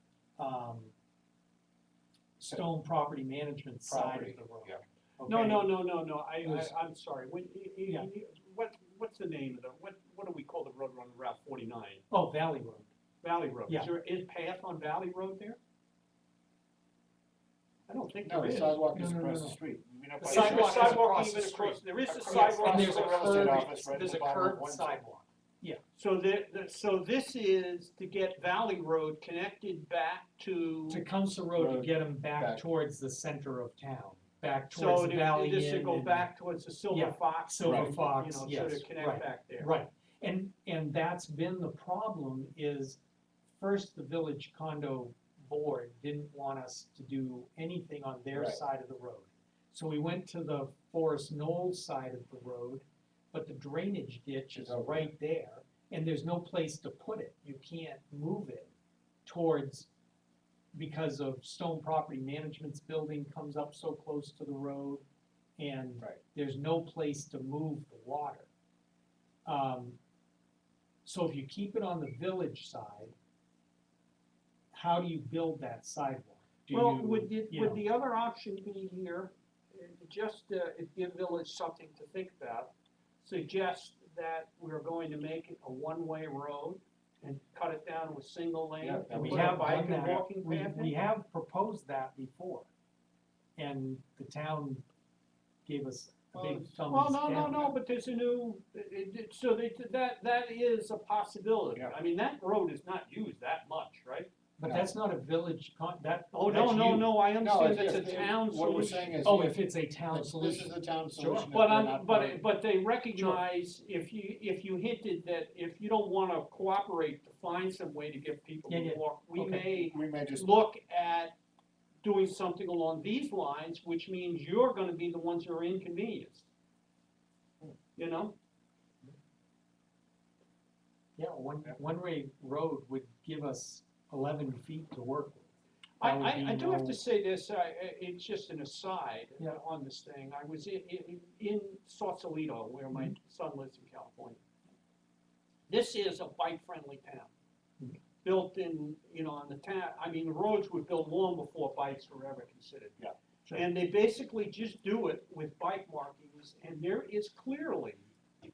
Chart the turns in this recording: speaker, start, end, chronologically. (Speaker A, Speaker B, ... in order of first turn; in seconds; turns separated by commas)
Speaker A: 0.4-0.9, Speaker A: 2.4-5.7, Speaker B: 3.9-4.8, Speaker C: 5.2-12.0, Speaker A: 6.4-6.7, Speaker A: 12.1-12.9, Speaker C: 13.2-15.6, Speaker C: 17.9-18.8, Speaker B: 18.2-21.1, Speaker A: 18.9-19.6, Speaker A: 20.2-25.8, Speaker C: 20.2-23.7, Speaker B: 22.1-24.9, Speaker C: 25.9-31.0, Speaker A: 30.9-36.3, Speaker B: 31.5-32.6, Speaker C: 34.7-39.7, Speaker A: 36.9-43.0, Speaker B: 37.6-37.9, Speaker A: 43.6-58.7, Speaker B: 48.3-48.6, Speaker B: 54.5-55.1, Speaker A: 59.2-59.9, Speaker A: 60.7-65.0, Speaker A: 65.6-68.5, Speaker A: 69.4-70.0, Speaker A: 71.0-73.1, Speaker A: 74.7-77.8, Speaker C: 76.7-82.7, Speaker C: 83.2-90.9, Speaker B: 88.8-90.2, Speaker A: 89.1-92.7, Speaker A: 93.5-94.8, Speaker A: 95.7-97.7, Speaker B: 96.3-96.8, Speaker C: 96.9-104.3, Speaker A: 104.6-106.7, Speaker B: 104.6-104.9, Speaker C: 106.3-109.2, Speaker B: 106.5-112.4, Speaker A: 109.2-111.5, Speaker C: 111.5-121.3, Speaker A: 113.1-113.4, Speaker A: 118.7-119.7, Speaker B: 119.8-120.5, Speaker C: 122.0-126.5, Speaker C: 128.0-128.3, Speaker A: 131.2-135.5, Speaker C: 136.0-144.4, Speaker A: 136.0-137.0, Speaker C: 145.7-147.3, Speaker C: 148.2-152.9, Speaker C: 153.5-158.1